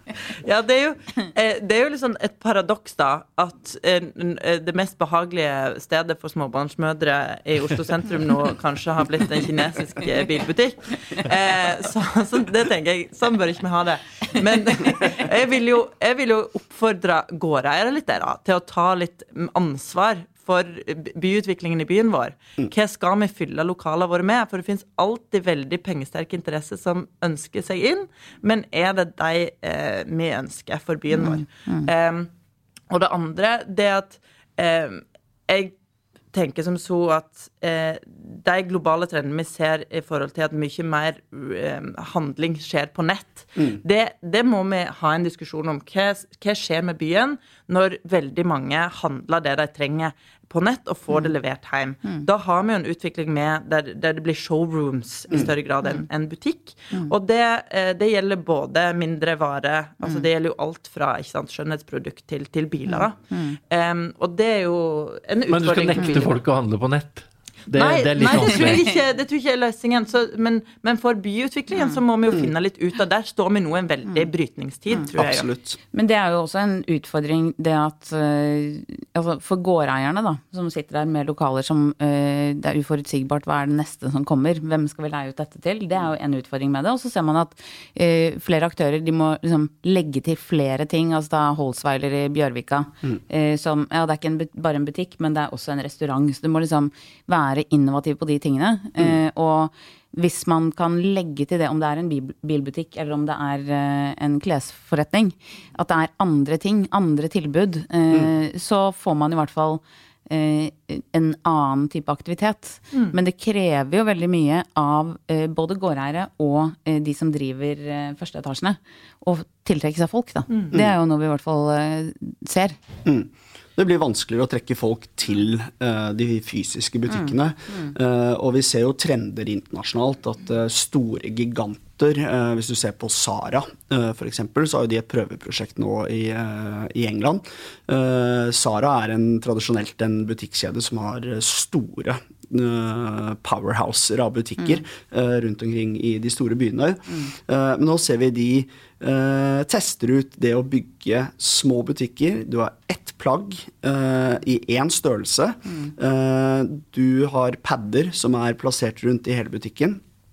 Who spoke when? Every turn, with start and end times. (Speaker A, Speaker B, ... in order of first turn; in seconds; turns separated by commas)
Speaker A: 0.4-32.3, Speaker B: 31.2-31.9, Speaker A: 32.9-35.7, Speaker A: 36.3-66.4, Speaker B: 62.9-63.6, Speaker C: 65.5-68.8, Speaker A: 67.7-75.5, Speaker D: 75.1-75.8, Speaker B: 75.9-122.8, Speaker D: 123.0-160.0